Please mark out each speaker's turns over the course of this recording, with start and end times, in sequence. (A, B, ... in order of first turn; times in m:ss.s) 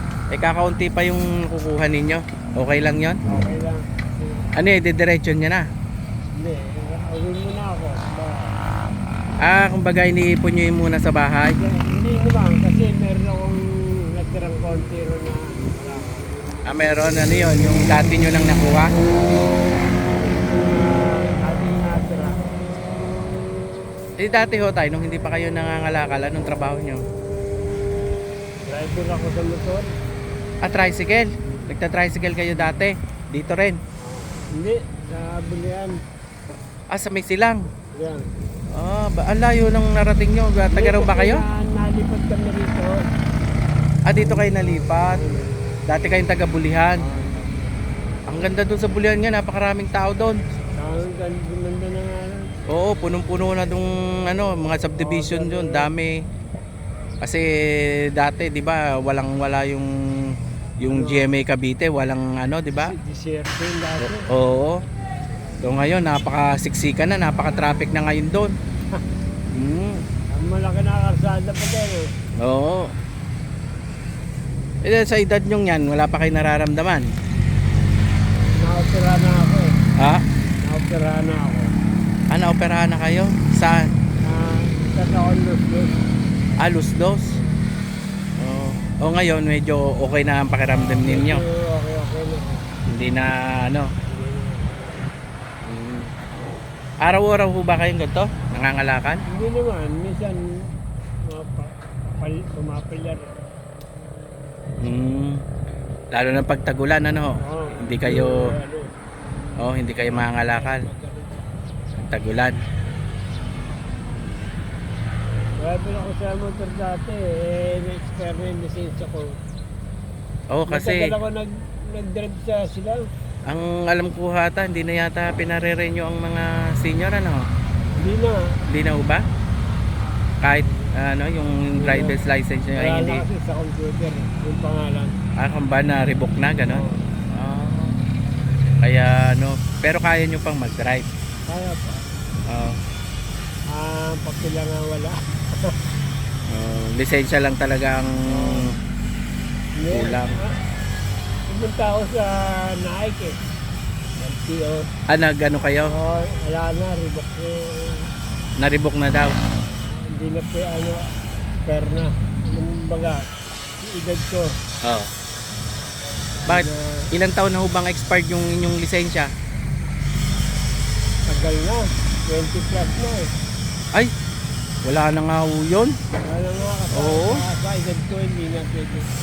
0:00.3-0:03.2 A
0:03.3-0:04.5 B
0:04.6-0:05.6 A
0:06.3-0:08.6 B
0:09.4-0:11.6 A
0:11.5-0:16.3 B
0:16.6-0:18.9 A
0:20.2-0:22.4 B
0:24.2-0:27.0 A
0:28.7-0:29.9 B
0:30.6-0:33.8 A
0:34.0-0:36.0 B
0:36.9-0:37.7 A
0:37.9-0:38.3 B
0:38.7-0:41.4 A
0:40.7-0:43.0 B
0:44.0-0:45.2 A
0:44.2-0:45.6 B
0:45.9-0:47.0 A
0:47.0-0:47.7 B
0:48.3-0:50.4 A
0:50.8-0:52.5 B
0:52.7-0:56.2 A
0:54.8-0:55.9 B
0:57.2-1:02.9 A
1:00.8-1:01.3 B
1:02.7-1:04.3 B
1:04.0-1:04.8 A
1:05.6-1:08.5 A
1:09.5-1:10.0 A
1:10.3-1:12.1 B
1:12.4-1:12.9 A
1:14.8-1:17.1 A
1:18.6-1:19.8 B
1:20.0-1:20.2 A
1:20.6-1:21.7 B
1:22.3-1:23.9 A
1:24.2-1:26.0 B
1:26.6-1:27.4 A
1:28.4-1:31.4 A
1:30.7-1:32.7 B
1:32.9-1:33.9 A
1:34.0-1:34.9 B
1:35.6-1:36.1 A
1:37.0-1:39.2 A
1:39.3-1:40.4 B
1:41.3-1:43.4 B
1:44.8-1:45.4 A
1:46.1-1:48.5 A
1:47.4-1:48.9 B
1:49.6-1:50.8 A
1:50.2-1:51.5 B
1:52.0-1:52.6 A
1:55.6-1:59.4 B
2:00.5-2:01.1 A
2:00.7-2:03.0 B
2:03.4-2:07.4 A
2:08.0-2:08.6 B
2:08.7-2:09.2 A
2:10.4-2:13.2 A
2:11.8-2:12.2 B
2:12.8-2:15.2 B
2:15.4-2:18.0 A
2:16.6-2:17.0 B
2:18.6-2:21.1 A
2:21.5-2:22.1 B
2:22.4-2:22.8 A
2:23.7-2:25.8 B
2:26.5-2:28.7 A
2:28.2-2:28.7 B
2:29.8-2:30.5 B
2:29.9-2:30.4 A
2:31.5-2:33.4 B
2:34.2-2:34.9 B
2:35.1-2:35.9 A
2:35.8-2:38.0 B
2:38.6-2:39.4 A
2:39.9-2:41.0 B
2:41.6-2:44.5 B
2:44.8-2:45.1 A
2:46.4-2:47.1 B
2:46.5-2:49.3 A
2:51.3-2:53.3 B
2:54.8-2:56.0 A
2:56.2-2:59.1 B
2:56.9-2:57.4 A